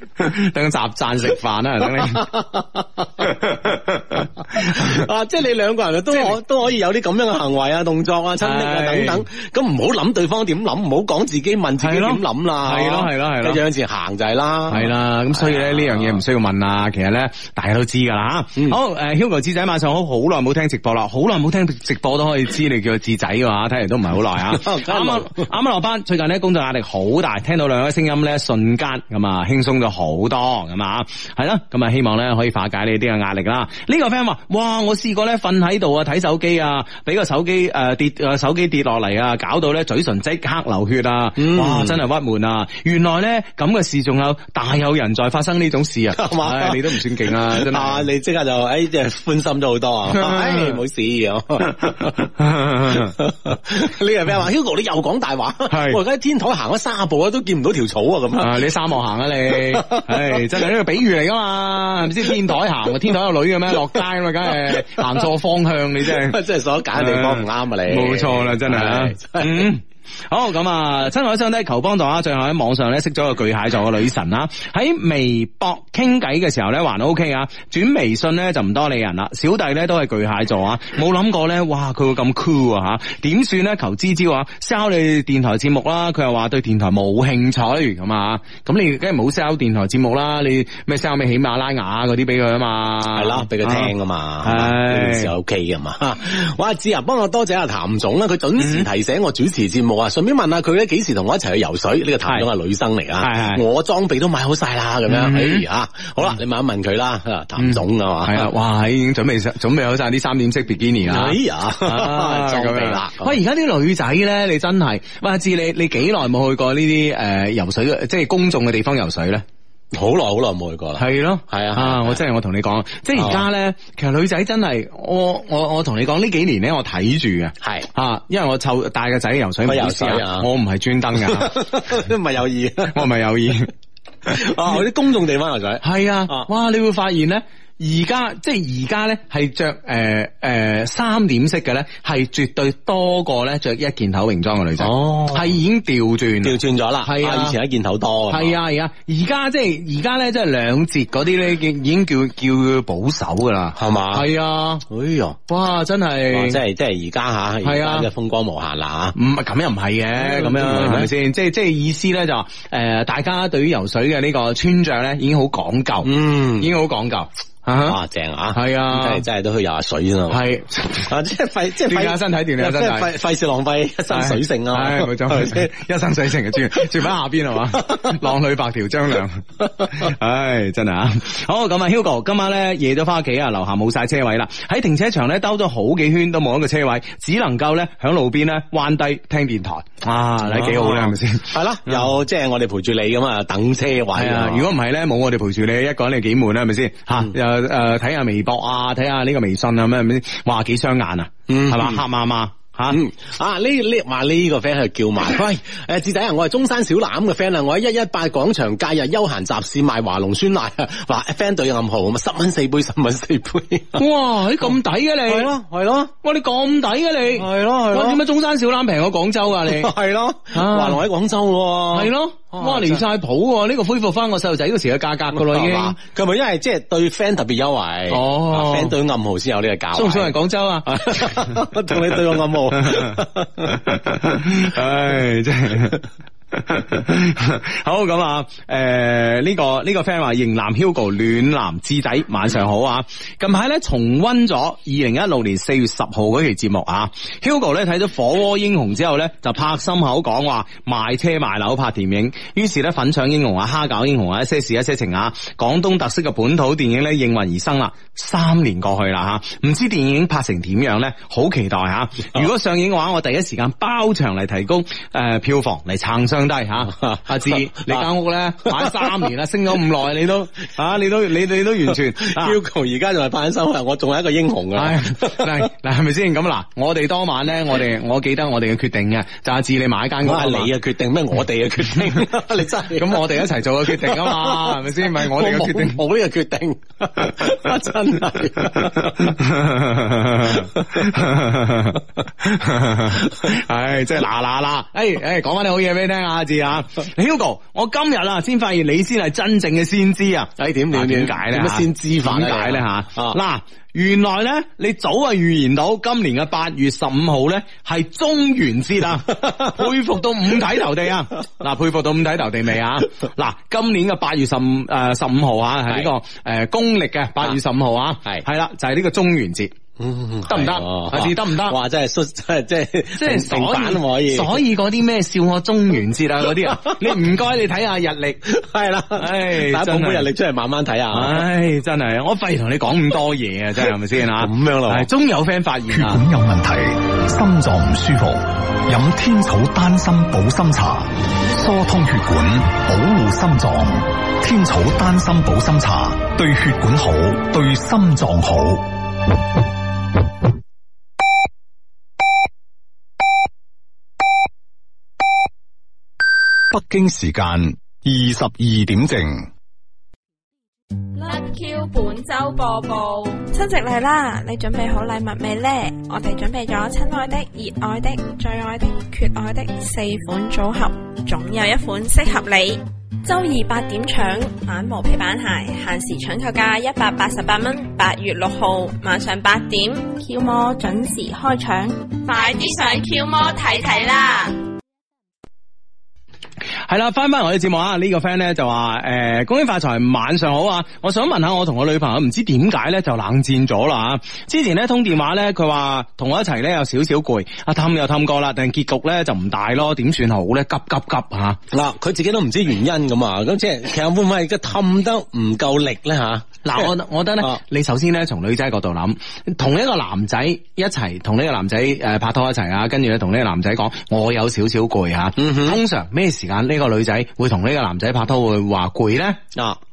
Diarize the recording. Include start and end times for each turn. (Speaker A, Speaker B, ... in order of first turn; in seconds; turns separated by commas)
Speaker A: 0.2-2.3, Speaker B: 2.0-3.2, Speaker A: 3.2-5.0, Speaker B: 4.5-16.2, Speaker A: 8.4-9.2, Speaker A: 11.8-13.6, Speaker A: 14.7-48.1, Speaker B: 24.5-25.5, Speaker B: 41.4-42.0, Speaker B: 46.1-52.2, Speaker A: 50.1-50.8, Speaker A: 52.4-53.1, Speaker B: 52.9-58.6, Speaker A: 55.7-56.0, Speaker A: 58.4-66.4, Speaker B: 59.5-60.6, Speaker B: 62.2-62.5, Speaker B: 64.5-65.2, Speaker B: 66.0-69.7, Speaker A: 67.0-95.3, Speaker B: 93.1-108.5, Speaker A: 98.6-98.9, Speaker A: 103.2-103.6, Speaker A: 105.1-105.6, Speaker A: 107.6-119.4, Speaker B: 111.0-113.4, Speaker B: 119.9-122.2, Speaker A: 121.0-131.9, Speaker B: 123.1-123.4, Speaker B: 127.6-127.9, Speaker B: 129.7-130.5, Speaker B: 131.2-133.0, Speaker A: 132.9-133.7, Speaker B: 134.3-136.5, Speaker A: 135.8-147.6, Speaker B: 144.8-145.5, Speaker B: 146.4-148.6, Speaker A: 148.3-154.8, Speaker B: 153.8-154.3, Speaker B: 154.9-155.4, Speaker A: 155.5-156.6, Speaker B: 156.3-159.2, Speaker A: 157.6-158.1, Speaker A: 159.1-168.0, Speaker B: 160.2-161.1, Speaker B: 166.0-166.7, Speaker B: 167.8-170.4, Speaker A: 168.5-169.2, Speaker A: 170.3-171.1, Speaker B: 171.0-175.7, Speaker A: 171.8-173.1, Speaker A: 174.1-192.1, Speaker B: 177.7-178.1, Speaker B: 190.4-194.7, Speaker A: 194.1-203.0, Speaker B: 201.5-202.0, Speaker B: 202.9-214.0, Speaker A: 213.9-215.5, Speaker B: 215.3-216.1, Speaker A: 216.2-219.9, Speaker B: 217.3-218.2, Speaker B: 219.6-223.0, Speaker A: 220.5-221.0, Speaker A: 221.9-226.0, Speaker B: 225.3-230.3, Speaker A: 228.1-228.9, Speaker A: 229.9-231.7, Speaker B: 230.8-233.7, Speaker A: 232.8-236.0, Speaker A: 236.5-272.6, Speaker B: 266.9-268.1, Speaker B: 268.6-269.3, Speaker B: 271.9-275.6, Speaker A: 274.8-280.7, Speaker B: 280.2-289.4, Speaker A: 282.9-286.0, Speaker A: 288.8-319.7, Speaker B: 290.5-291.1, Speaker B: 300.6-303.4, Speaker B: 320.0-324.6, Speaker A: 320.5-321.8, Speaker A: 323.1-328.4, Speaker B: 326.6-327.1, Speaker B: 328.4-331.4, Speaker A: 329.1-330.3, Speaker A: 331.1-336.2, Speaker B: 334.2-335.1, Speaker C: 335.9-348.9, Speaker C: 356.7-359.5, Speaker D: 361.1-363.4, Speaker E: 363.5-382.6, Speaker D: 382.2-384.5, Speaker A: 386.9-401.6, Speaker B: 401.7-407.6, Speaker A: 406.6-419.4, Speaker B: 415.4-415.8